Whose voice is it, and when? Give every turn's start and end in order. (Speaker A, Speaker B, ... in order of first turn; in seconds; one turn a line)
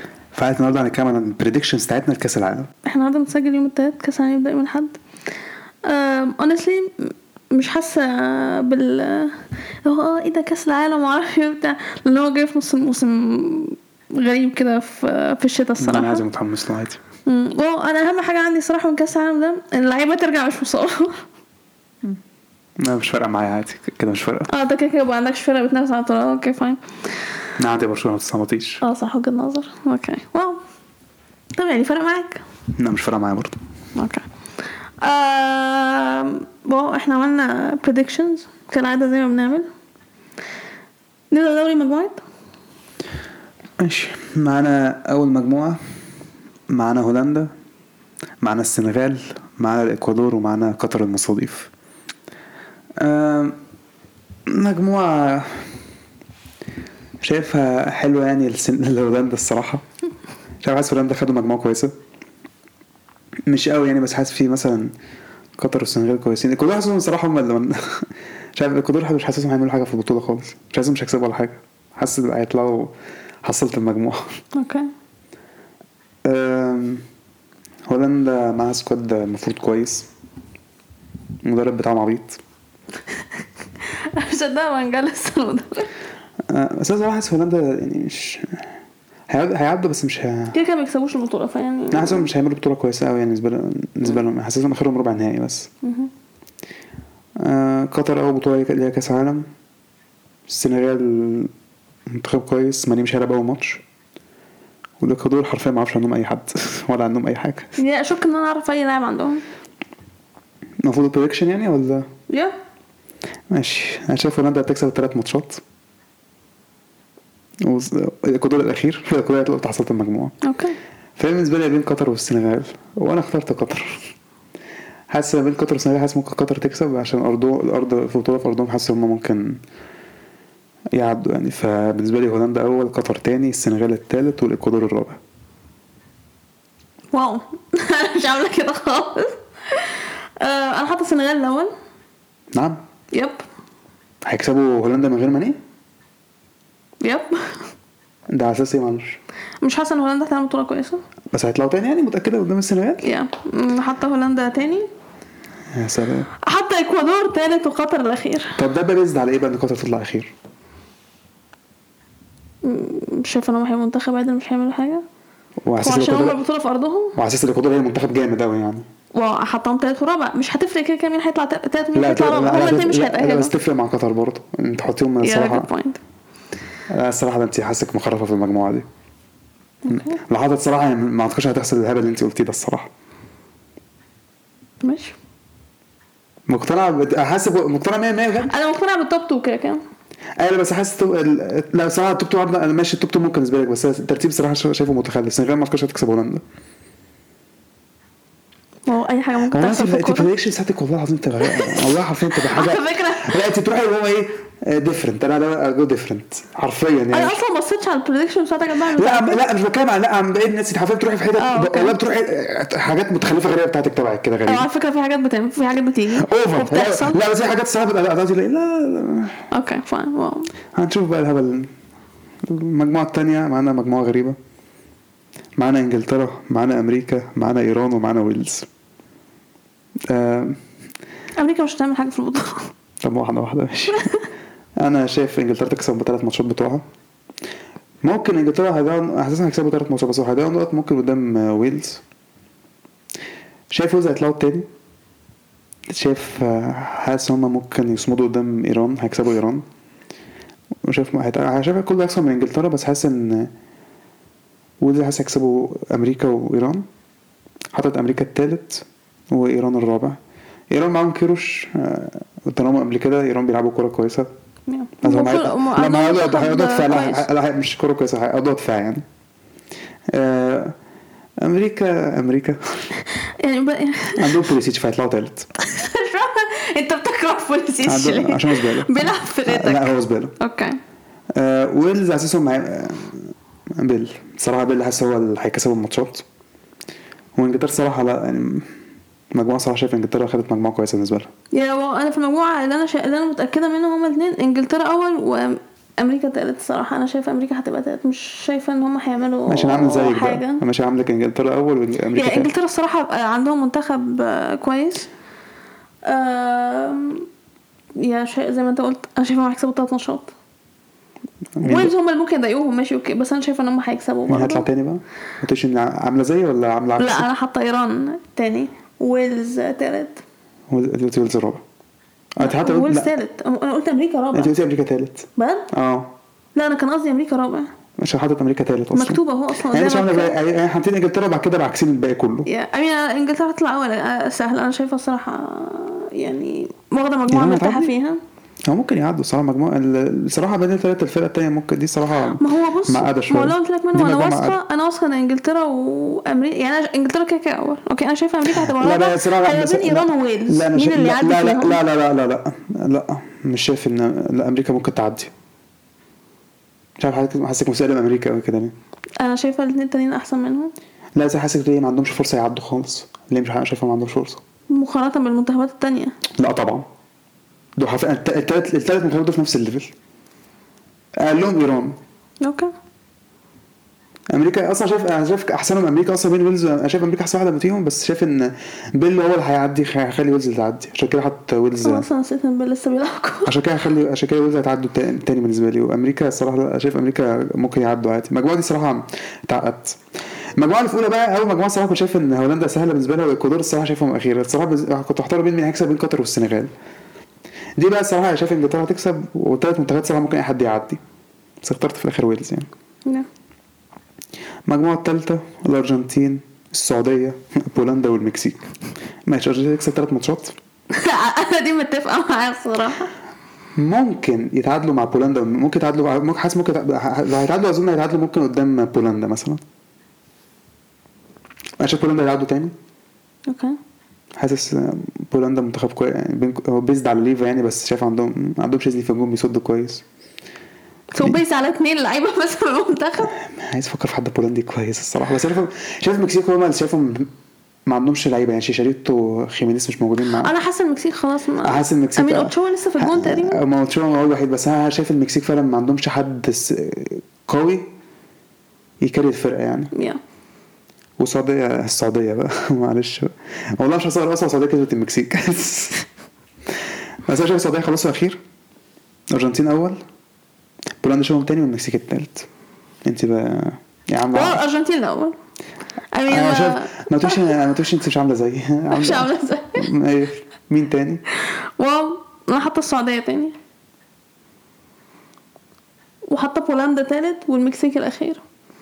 Speaker A: 0.3-2.7
Speaker B: 2.8-5.0
Speaker B: 5.8-16.2
Speaker A: 15.8-17.0
Speaker B: 17.2-21.2
Speaker A: 22.8-24.5
Speaker B: 24.5-26.8
Speaker A: 27.6-28.8
Speaker B: 28.8-30.6
Speaker B: 31.5-32.4
Speaker A: 32.8-33.6
Speaker B: 34.0-34.2
Speaker B: 35.0-39.7
Speaker B: 41.3-42.2
Speaker A: 43.8-45.8
Speaker A: 46.7-47.5
Speaker A: 48.4-51.7
Speaker A: 53.0-53.6
Speaker A: 54.5-55.7
Speaker A: 57.2-59.8
Speaker A: 60.6-61.9
Speaker A: 63.5-64.9
Speaker A: 65.6-72.9
Speaker A: 73.4-74.4
Speaker B: 74.5-74.9
Speaker A: 76.2-77.0
Speaker A: 77.9-80.1
Speaker A: 81.4-82.4
Speaker B: 83.8-85.9
Speaker A: 86.5-88.7
Speaker A: 89.3-90.5
Speaker B: 90.5-92.3
Speaker A: 91.9-95.7
Speaker B: 95.8-96.1
Speaker A: 97.4-99.5
Speaker A: 100.5-101.5
Speaker A: 102.1-103.8
Speaker A: 105.0-107.7
Speaker B: 107.8-109.4
Speaker A: 110.8-112.1
Speaker B: 112.3-112.5
Speaker A: 113.5-115.6
Speaker A: 117.6-120.3
Speaker B: 120.4-120.8
Speaker A: 121.2-124.1
Speaker A: 125.1-129.6
Speaker A: 130.9-135.2
Speaker B: 137.1-141.7
Speaker A: 142.5-142.8
Speaker B: 143.1-143.4
Speaker A: 144.2-145.6
Speaker B: 147.0-147.6
Speaker A: 148.3-149.2
Speaker B: 149.6-151.0
Speaker A: 151.3-153.1
Speaker B: 153.0-154.9
Speaker A: 155.7-156.3
Speaker B: 156.4-158.6
Speaker A: 158.6-160.3
Speaker B: 162.6-165.0
Speaker A: 165.6-166.4
Speaker B: 165.8-167.2
Speaker A: 167.2-168.8
Speaker B: 169.1-173.5
Speaker A: 171.9-175.7
Speaker B: 175.2-176.0
Speaker A: 176.9-178.8
Speaker B: 179.8-180.2
Speaker A: 179.9-182.9
Speaker B: 184.8-185.2
Speaker A: 186.5-188.5
Speaker B: 188.5-189.8
Speaker A: 190.4-196.4
Speaker B: 198.9-200.3
Speaker A: 199.5-207.4
Speaker B: 201.4-203.4
Speaker B: 207.1-209.4
Speaker A: 208.9-214.7
Speaker B: 211.3-211.9
Speaker B: 214.4-217.2
Speaker A: 216.2-219.4
Speaker B: 219.5-220.5
Speaker A: 220.7-221.7
Speaker A: 222.4-224.4
Speaker A: 225.6-228.7
Speaker A: 230.1-230.6
Speaker B: 231.4-232.7
Speaker A: 233.0-234.1
Speaker B: 233.9-234.2
Speaker A: 234.8-236.8
Speaker A: 238.0-242.0
Speaker A: 243.7-244.7
Speaker A: 245.9-249.6
Speaker A: 250.8-253.5
Speaker A: 254.8-256.9
Speaker A: 257.7-260.2
Speaker A: 260.7-264.3
Speaker B: 264.7-267.2
Speaker A: 265.0-269.0
Speaker A: 270.1-270.7
Speaker A: 271.4-272.9
Speaker B: 273.2-274.3
Speaker A: 274.1-275.5
Speaker B: 275.6-280.8
Speaker A: 277.8-280.3
Speaker A: 281.3-286.2
Speaker A: 287.3-288.7
Speaker A: 289.3-291.3
Speaker B: 291.5-300.6
Speaker A: 299.5-302.5
Speaker B: 302.1-305.1
Speaker B: 306.0-307.3
Speaker B: 308.0-310.3
Speaker A: 311.6-311.9
Speaker B: 311.6-314.6
Speaker A: 314.3-317.3
Speaker B: 317.0-320.2
Speaker A: 320.7-321.6
Speaker A: 322.4-323.1
Speaker B: 322.4-324.5
Speaker A: 324.3-326.1
Speaker B: 325.4-325.7
Speaker B: 326.5-327.7
Speaker A: 328.0-332.5
Speaker B: 328.9-330.4
Speaker B: 332.4-338.2
Speaker A: 337.3-337.9
Speaker A: 338.7-344.6
Speaker B: 342.4-351.8
Speaker A: 348.5-355.3
Speaker A: 357.0-358.7
Speaker B: 359.2-360.7
Speaker A: 361.1-364.4
Speaker B: 364.7-366.1
Speaker A: 366.4-366.8
Speaker A: 367.8-369.9
Speaker A: 371.2-371.9
Speaker B: 372.4-372.7
Speaker A: 374.3-382.1
Speaker B: 381.8-383.5
Speaker A: 383.4-390.0
Speaker A: 390.5-396.7
Speaker A: 397.8-401.0
Speaker A: 401.6-402.7
Speaker A: 404.6-408.6
Speaker A: 409.2-410.6
Speaker B: 410.9-413.1
Speaker A: 413.8-419.6
Speaker A: 421.8-422.7
Speaker B: 423.5-423.8
Speaker A: 424.4-430.0
Speaker B: 431.1-433.3
Speaker A: 433.4-437.3
Speaker A: 437.9-440.5
Speaker B: 440.3-443.6
Speaker A: 441.6-447.8
Speaker A: 449.0-449.9
Speaker B: 449.9-450.2
Speaker A: 451.2-456.0
Speaker A: 457.3-458.4
Speaker A: 459.3-460.0
Speaker A: 461.0-462.5
Speaker A: 463.0-464.6
Speaker B: 464.3-465.3
Speaker B: 466.1-467.4
Speaker A: 466.3-471.2
Speaker B: 468.9-469.9
Speaker B: 471.4-473.6
Speaker B: 476.3-478.4